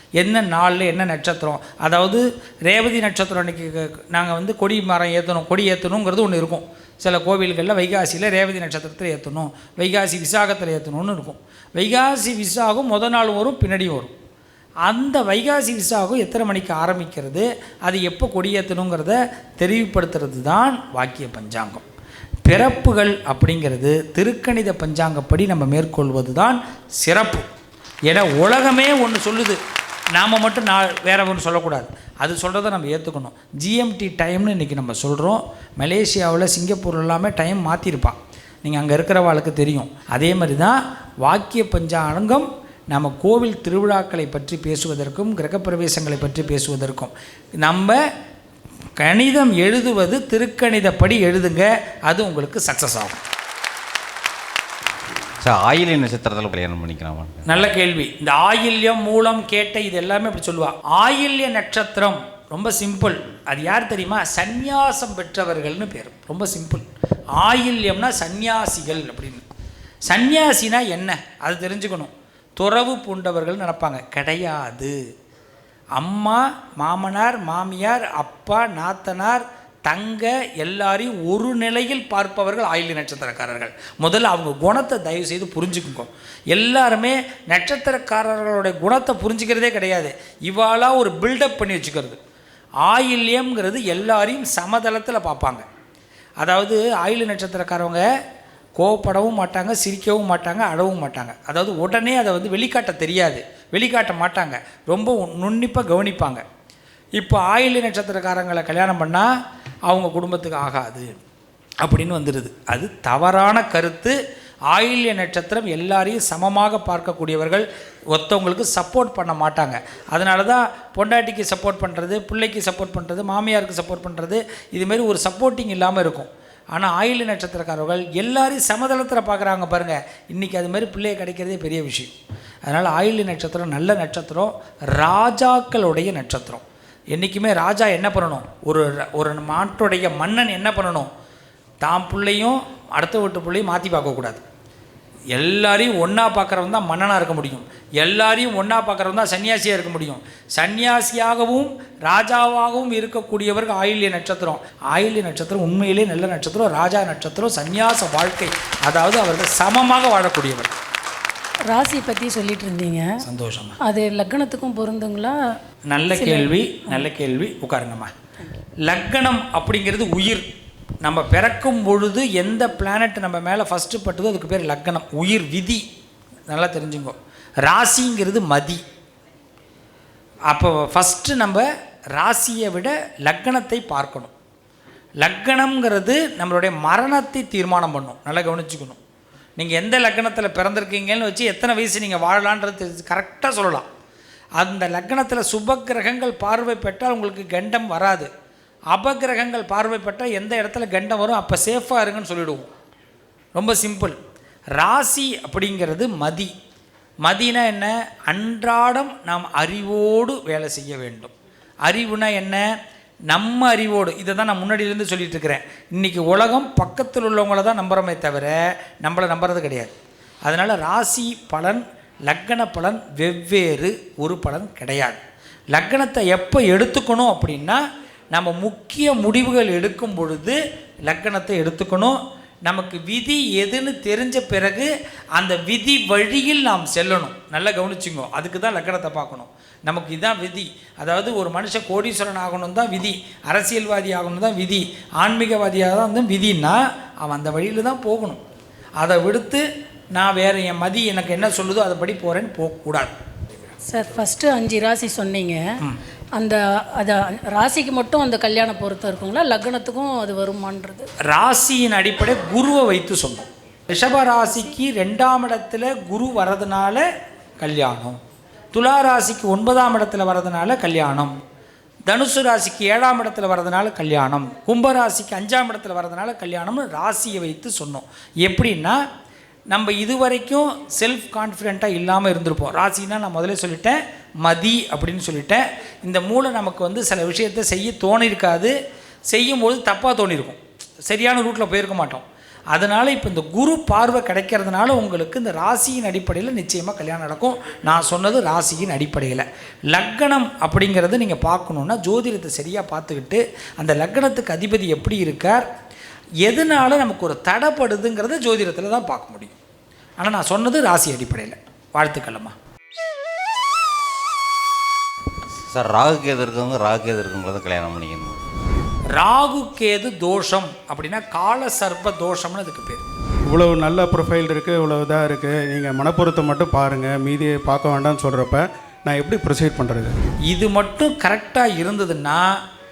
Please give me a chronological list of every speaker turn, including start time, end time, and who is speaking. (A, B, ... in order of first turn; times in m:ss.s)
0:00.2-0:14.1 A
0:14.8-0:21.8 A
0:22.4-0:27.5 A
0:28.1-0:29.6 A
0:30.1-0:48.0 A
0:49.0-0:53.2 A
0:55.4-0:57.5 B
0:57.5-1:09.4 A
1:10.1-1:15.0 A
1:16.0-1:32.2 A
1:32.8-1:35.6 A
1:36.4-1:38.1 A
1:38.8-1:46.4 A
1:47.2-1:49.3 A
1:49.9-1:51.2 A
1:51.8-1:54.2 A
1:54.7-2:12.1 A
2:12.7-2:21.1 A
2:21.8-2:24.4 A
2:25.3-2:40.8 A
2:41.7-2:43.1 C
2:43.2-2:43.8 A
2:43.8-2:45.4 C
2:45.9-2:48.1 A
2:46.1-2:47.0 C
2:48.8-2:50.5 A
2:51.0-2:55.8 A
2:56.5-2:58.8 A
3:00.5-3:04.3 A
3:05.2-3:09.0 A
3:09.6-3:13.9 A
3:14.6-3:18.3 A
3:18.9-3:22.7 A
3:23.6-3:24.2 A
3:24.8-3:26.5 A
3:27.2-3:31.3 A
3:31.8-3:32.7 A
3:33.3-3:45.2 A
3:45.7-4:08.4 A
4:09.0-4:13.2 A
4:13.9-4:15.6 C
4:16.4-4:21.1 C
4:21.2-4:27.1 A
4:27.6-4:28.2 A
4:28.7-4:31.3 A
4:32.1-4:39.0 A
4:39.7-4:48.8 A
4:49.3-5:05.7 A
5:06.4-5:09.6 A
5:10.2-5:12.6 A
5:15.7-5:18.4 B
5:19.1-5:23.0 A
5:23.5-5:30.2 D
5:30.5-5:32.6 A